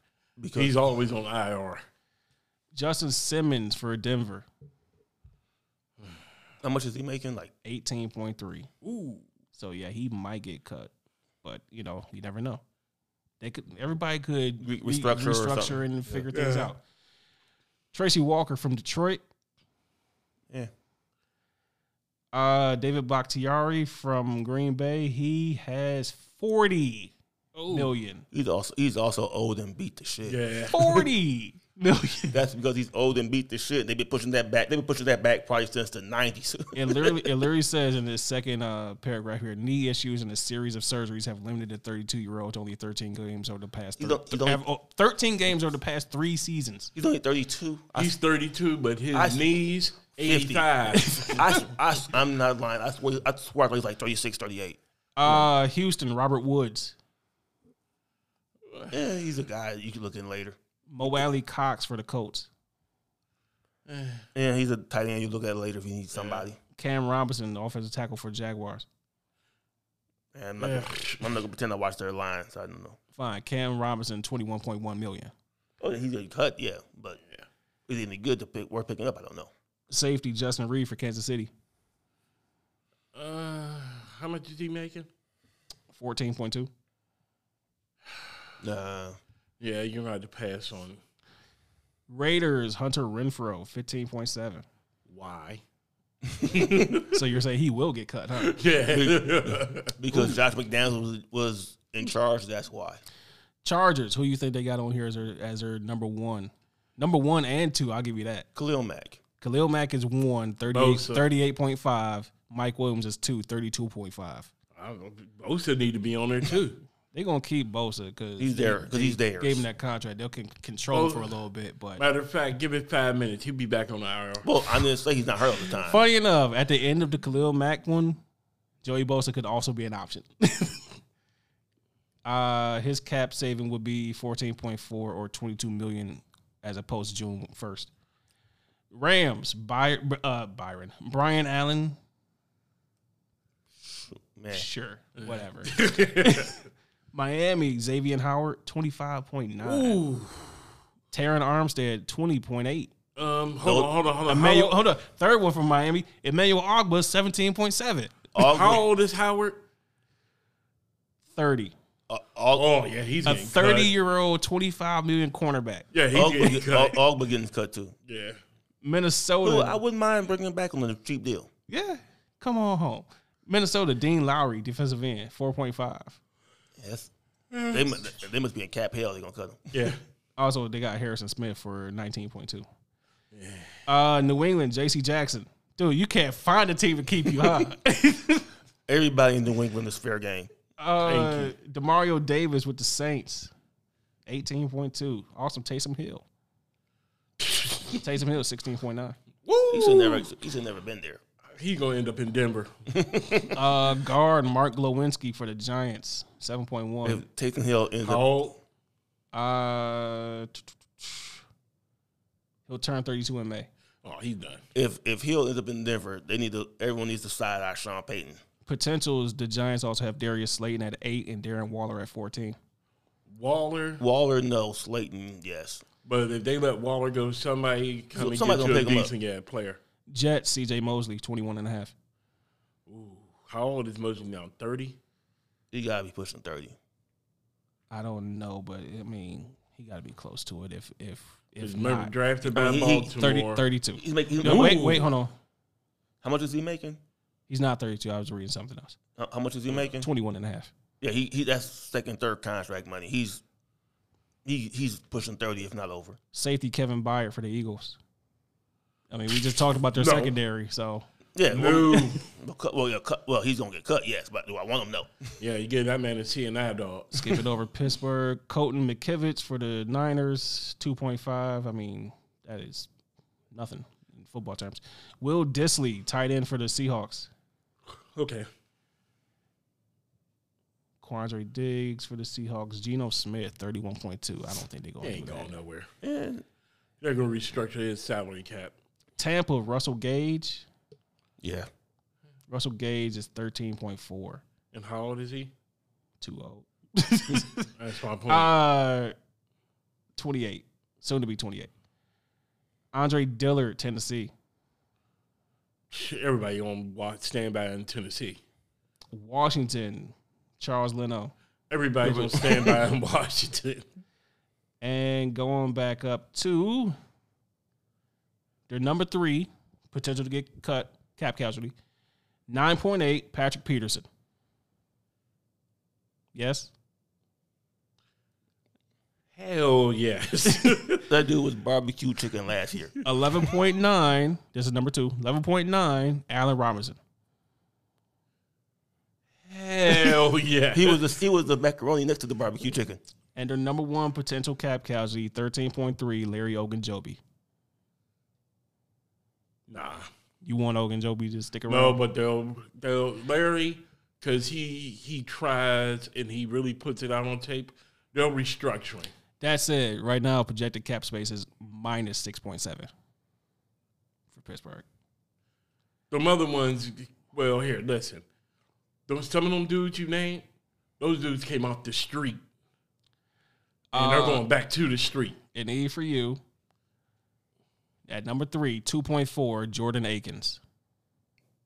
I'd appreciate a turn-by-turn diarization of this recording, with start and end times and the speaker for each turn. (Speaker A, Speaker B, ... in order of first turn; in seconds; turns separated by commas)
Speaker A: 0.4-0.7, Speaker B: 0.5-1.8, Speaker C: 2.7-4.5, Speaker A: 6.6-7.5, Speaker C: 7.6-8.7, Speaker B: 8.8-9.2, Speaker C: 9.5-10.9, Speaker C: 11.4-12.6, Speaker C: 13.4-16.8, Speaker A: 14.6-16.2, Speaker B: 16.3-16.7, Speaker C: 17.9-19.2, Speaker C: 22.3-27.1, Speaker B: 27.5-27.9, Speaker C: 27.7-28.2, Speaker A: 28.3-30.4, Speaker B: 30.2-31.0, Speaker C: 30.7-32.4, Speaker A: 32.3-37.2, Speaker C: 36.7-46.9, Speaker A: 44.0-44.6, Speaker A: 46.9-48.1, Speaker B: 47.9-51.5, Speaker A: 49.1-49.5, Speaker A: 50.2-55.5, Speaker C: 51.0-51.4, Speaker C: 55.2-56.9, Speaker B: 58.7-58.9, Speaker A: 58.9-61.2, Speaker C: 60.9-62.5, Speaker B: 63.9-64.2, Speaker A: 64.3-66.6, Speaker B: 66.1-66.5, Speaker C: 66.8-68.8, Speaker A: 70.3-73.0, Speaker B: 70.6-71.4, Speaker C: 73.2-75.3, Speaker A: 75.8-77.2, Speaker A: 77.9-79.5, Speaker C: 79.9-81.5, Speaker B: 83.1-85.1, Speaker C: 85.9-86.7, Speaker A: 88.6-89.2, Speaker B: 89.6-91.0, Speaker C: 92.1-94.6, Speaker B: 95.1-95.6, Speaker A: 96.4-96.8, Speaker B: 96.5-97.1, Speaker C: 97.0-98.6, Speaker B: 98.4-100.3, Speaker A: 98.9-103.0, Speaker C: 103.6-108.5, Speaker A: 108.5-109.2, Speaker C: 109.4-114.5, Speaker B: 110.7-111.3, Speaker B: 114.8-116.8, Speaker C: 117.1-122.0, Speaker A: 118.4-119.6, Speaker B: 120.9-121.3, Speaker B: 122.0-124.6, Speaker A: 124.4-126.0, Speaker C: 125.8-128.2, Speaker C: 128.8-130.8, Speaker C: 132.2-137.9, Speaker C: 138.9-142.0, Speaker A: 143.8-144.7, Speaker C: 144.5-146.6, Speaker B: 145.2-146.5, Speaker C: 147.1-150.0, Speaker B: 149.6-150.6, Speaker C: 151.1-152.9, Speaker B: 153.2-154.8, Speaker A: 153.6-153.9, Speaker C: 154.3-158.3, Speaker A: 158.3-158.8, Speaker B: 158.3-159.6, Speaker C: 161.3-161.7, Speaker A: 162.1-162.7, Speaker B: 162.5-163.9, Speaker C: 163.2-165.8, Speaker B: 165.9-167.0, Speaker A: 166.1-167.9, Speaker B: 168.1-168.4, Speaker C: 168.8-169.8, Speaker A: 169.4-171.5, Speaker C: 171.7-176.2, Speaker A: 176.8-177.1, Speaker B: 177.5-178.0, Speaker A: 177.7-179.9, Speaker B: 179.7-180.0, Speaker C: 180.4-182.7, Speaker B: 183.3-183.8, Speaker C: 183.8-188.5, Speaker A: 188.9-190.5, Speaker C: 190.8-193.5, Speaker B: 191.0-191.5, Speaker C: 194.3-196.2, Speaker B: 197.4-198.0, Speaker C: 197.9-199.2, Speaker B: 199.4-200.3, Speaker A: 199.7-201.2, Speaker B: 201.5-202.7, Speaker A: 202.9-203.5, Speaker C: 203.5-207.2, Speaker A: 207.0-208.2, Speaker B: 208.0-208.6, Speaker C: 209.3-211.4, Speaker C: 212.7-213.7, Speaker B: 214.0-214.6, Speaker A: 214.7-218.4, Speaker C: 218.7-222.6, Speaker B: 223.3-224.0, Speaker A: 224.0-225.8, Speaker B: 226.0-229.8, Speaker A: 228.1-229.1, Speaker C: 230.1-231.9, Speaker B: 232.9-235.0, Speaker A: 235.7-236.8, Speaker C: 237.9-242.1, Speaker B: 241.6-243.7, Speaker A: 242.4-243.2, Speaker C: 243.2-245.3, Speaker A: 244.0-245.1, Speaker B: 244.4-245.1, Speaker A: 246.2-247.0, Speaker C: 247.5-248.9, Speaker A: 249.2-250.1, Speaker C: 249.9-250.7, Speaker A: 251.0-253.4, Speaker A: 254.4-256.2, Speaker C: 256.3-258.0, Speaker C: 259.1-261.1, Speaker B: 259.8-260.3, Speaker A: 261.4-265.3, Speaker B: 261.5-262.2, Speaker B: 265.4-267.4, Speaker C: 267.1-272.9, Speaker C: 273.5-277.3, Speaker B: 278.1-278.4, Speaker C: 281.0-285.5, Speaker B: 285.0-285.9, Speaker A: 286.0-286.4, Speaker B: 287.0-288.7, Speaker C: 289.2-290.6, Speaker A: 291.4-291.7, Speaker C: 292.5-294.4, Speaker B: 294.7-295.5, Speaker C: 296.2-297.7, Speaker B: 297.7-298.5, Speaker C: 298.3-299.1, Speaker C: 300.1-301.7, Speaker C: 302.9-304.3, Speaker B: 305.9-308.4, Speaker C: 309.1-311.3, Speaker B: 311.7-313.9, Speaker C: 312.1-312.4, Speaker C: 314.8-316.9, Speaker C: 318.7-321.7, Speaker C: 322.5-324.1, Speaker C: 326.3-326.7, Speaker B: 329.3-331.1, Speaker A: 331.1-332.9, Speaker C: 333.0-337.0, Speaker B: 339.5-341.0, Speaker A: 340.7-343.0, Speaker C: 343.3-347.2, Speaker B: 349.7-350.1, Speaker C: 350.4-352.0, Speaker B: 351.7-359.1, Speaker C: 359.4-362.9, Speaker C: 364.3-364.8, Speaker B: 366.1-368.2, Speaker B: 369.1-370.4, Speaker B: 371.0-372.4, Speaker C: 373.9-374.4, Speaker B: 373.9-375.4, Speaker C: 375.5-376.4, Speaker C: 378.1-380.6